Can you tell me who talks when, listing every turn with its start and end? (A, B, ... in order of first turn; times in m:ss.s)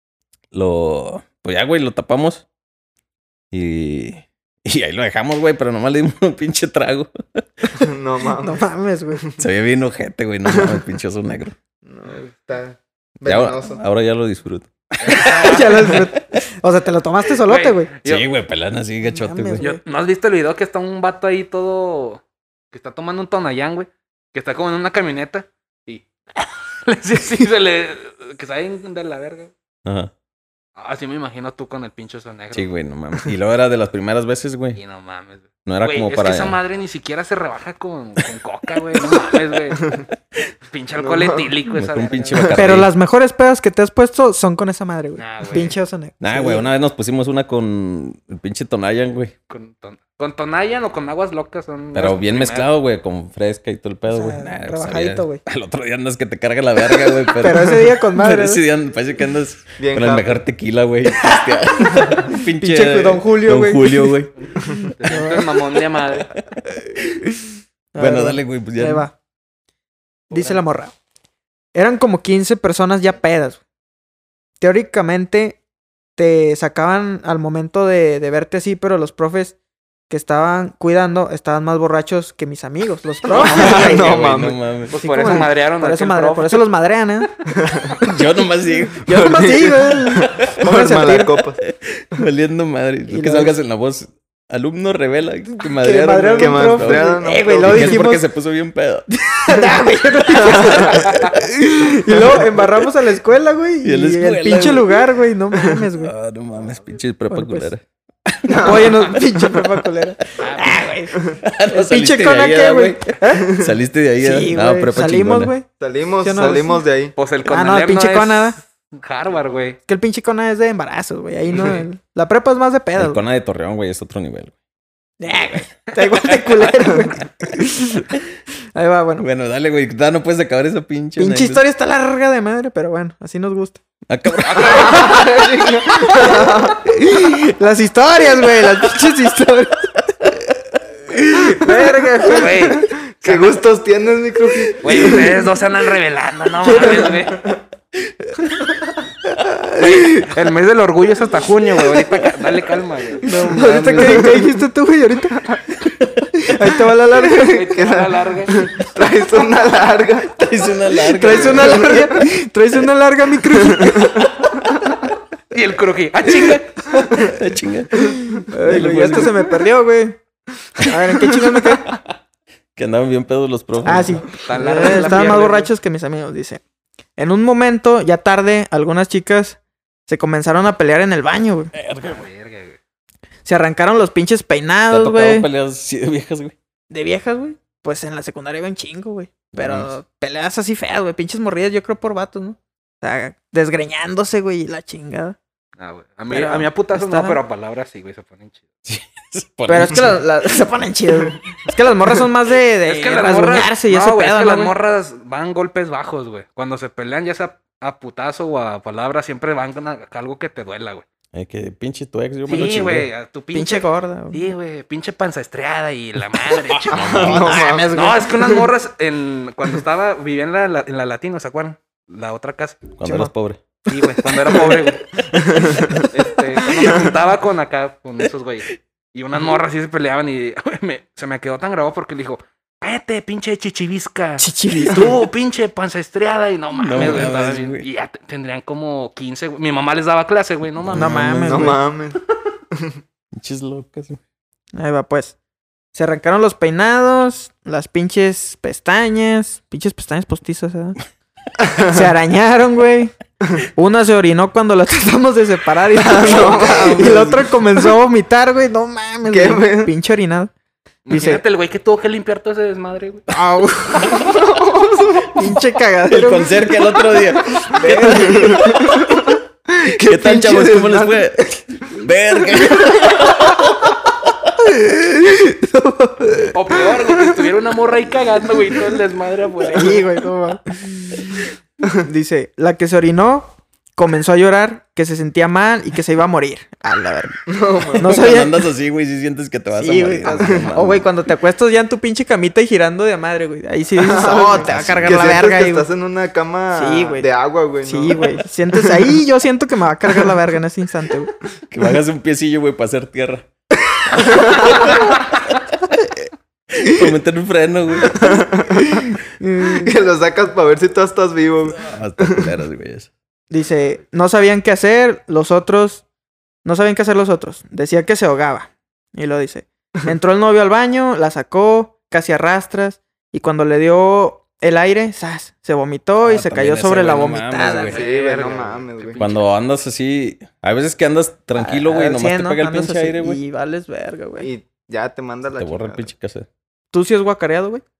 0:00.5-0:02.4 A
0:03.5-0:07.7 A
0:07.7-0:08.6 B
0:08.4-0:09.2 C
0:09.4-0:11.6 A
0:10.5-0:10.8 B
0:11.9-0:13.8 B
0:13.2-0:16.1 A
0:15.0-0:16.0 D
0:15.1-0:17.9 C
0:17.4-0:18.3 D
0:18.0-0:19.6 A
0:19.1-0:19.8 C
0:19.6-0:29.5 D
0:29.8-0:30.1 A
0:30.8-0:32.7 D
0:32.5-0:34.8 A
0:34.8-0:40.0 D
0:35.6-0:36.6 A
0:38.9-0:39.2 A
0:40.7-0:42.6 D
0:41.0-0:41.5 B
0:41.7-0:42.9 A
0:42.4-0:42.7 B
0:42.5-0:46.7 C
0:45.2-0:45.7 D
0:46.2-0:49.3 A
0:49.5-0:52.7 D
0:51.9-1:04.3 A
0:54.1-0:55.4 C
0:57.4-0:58.6 C
0:59.8-1:00.4 B
1:01.2-1:04.2 C
1:04.4-1:06.4 D
1:04.7-1:05.5 C
1:07.3-1:09.1 C
1:08.0-1:09.1 A
1:10.3-1:10.9 C
1:10.3-1:10.6 D
1:11.7-1:13.6 C
1:14.6-1:15.6 C
1:16.2-1:19.6 C
1:20.1-1:24.3 C
1:23.4-1:24.9 A
1:23.4-1:24.6 B
1:24.9-1:26.6 D
1:24.9-1:27.3 C
1:27.5-1:28.0 B
1:28.0-1:29.4 A
1:29.0-1:31.6 B
1:29.0-1:31.4 C
1:31.6-1:39.1 A
1:33.1-1:33.5 C
1:35.6-1:38.2 C
1:36.4-1:38.0 B
1:39.2-1:46.1 C
1:40.3-1:41.2 B
1:42.1-1:42.4 B
1:43.8-1:45.1 A
1:45.9-1:49.1 A
1:46.6-1:46.9 D
1:47.3-1:47.7 C
1:48.5-1:49.5 B
1:48.6-1:51.2 C
1:50.4-1:50.9 D
1:51.4-1:55.5 A
1:51.7-1:53.5 C
1:53.4-1:53.7 B
1:54.2-1:55.7 C
1:55.8-1:57.1 B
1:56.2-1:56.8 C
1:57.2-1:59.8 D
1:57.5-1:58.6 C
1:59.9-2:03.2 C
2:01.5-2:01.8 D
2:03.0-2:04.6 A
2:05.2-2:08.1 C
2:08.8-2:09.2 C
2:09.2-2:11.6 A
2:11.2-2:13.8 C
2:14.1-2:15.0 A
2:14.4-2:15.2 D
2:14.6-2:16.8 B
2:14.9-2:15.3 C
2:15.9-2:19.9 C
2:21.2-2:22.9 C
2:22.2-2:23.5 D
2:22.7-2:25.4 B
2:24.8-2:27.4 D
2:26.6-2:27.3 C
2:29.8-2:33.4 D
2:33.2-2:34.4 A
2:33.2-2:35.5 C
2:33.9-2:34.5 B
2:35.9-2:36.3 A
2:36.4-2:37.5 C
2:37.1-2:40.5 B
2:37.3-2:38.7 D
2:40.4-2:42.3 A
2:41.0-2:44.3 C
2:41.4-2:42.0 B
2:43.5-2:44.5 B
2:45.5-2:47.1 D
2:47.2-2:49.5 A
2:48.4-2:50.2 C
2:50.8-2:51.9 C
2:52.8-2:54.3 A
2:53.8-2:56.6 C
2:54.4-2:55.7 D
2:57.2-3:01.7 C
3:01.7-3:02.3 A
3:02.0-3:02.8 D
3:03.4-3:05.5 C
3:04.9-3:06.6 A
3:06.9-3:15.4 C
3:09.5-3:09.9 A
3:15.8-3:18.6 D
3:16.3-3:17.4 C
3:18.8-3:20.2 A
3:19.7-3:24.7 C
3:22.8-3:31.0 D
3:31.3-3:33.1 A
3:32.5-3:42.9 D
3:33.5-3:34.4 C
3:36.7-3:37.5 A
3:36.9-3:37.9 B
3:37.2-3:38.7 C
3:43.0-3:43.6 A
3:43.0-3:43.3 C
3:43.9-3:45.2 D
3:45.3-3:46.0 B
3:45.7-4:01.2 D
3:54.4-3:55.2 C
3:56.8-3:57.8 A
4:00.8-4:01.8 A
4:00.9-4:01.8 C
4:01.4-4:02.2 B
4:03.3-4:04.2 A
4:04.8-4:05.4 C
4:05.9-4:11.0 C
4:11.6-4:12.0 B
4:11.8-4:13.1 C
4:13.8-4:20.5 C
4:15.9-4:17.4 B
4:16.2-4:17.4 A
4:19.3-4:19.9 B
4:21.1-4:23.3 D
4:21.1-4:21.4 C
4:23.3-4:24.3 C
4:24.1-4:25.3 B
4:25.4-4:28.9 C
4:26.1-4:28.9 A
4:27.9-4:31.3 B
4:30.0-4:34.3 A
4:34.6-4:36.5 C
4:36.5-4:40.0 D
4:39.7-4:41.4 C
4:42.0-4:47.4 C
4:47.5-4:48.1 B
4:47.9-4:48.6 C
4:48.0-4:51.1 A
4:49.7-4:55.9 C
4:50.3-4:50.7 B
4:54.0-4:59.1 B
4:54.5-4:55.3 A
4:56.7-4:57.3 C
4:57.8-5:01.3 C
5:01.7-5:03.5 A
5:04.1-5:05.0 B
5:04.2-5:06.2 A
5:06.8-5:08.4 A
5:08.1-5:09.1 B
5:09.4-5:09.9 C
5:09.8-5:12.5 B
5:11.7-5:13.1 A
5:13.5-5:16.0 C
5:16.6-5:28.0 C
5:26.2-5:28.0 A
5:27.8-5:29.4 D
5:27.9-5:29.3 B
5:29.2-5:33.4 A
5:31.6-5:34.5 C
5:34.4-5:36.1 B
5:35.6-5:36.5 A
5:36.9-5:37.8 C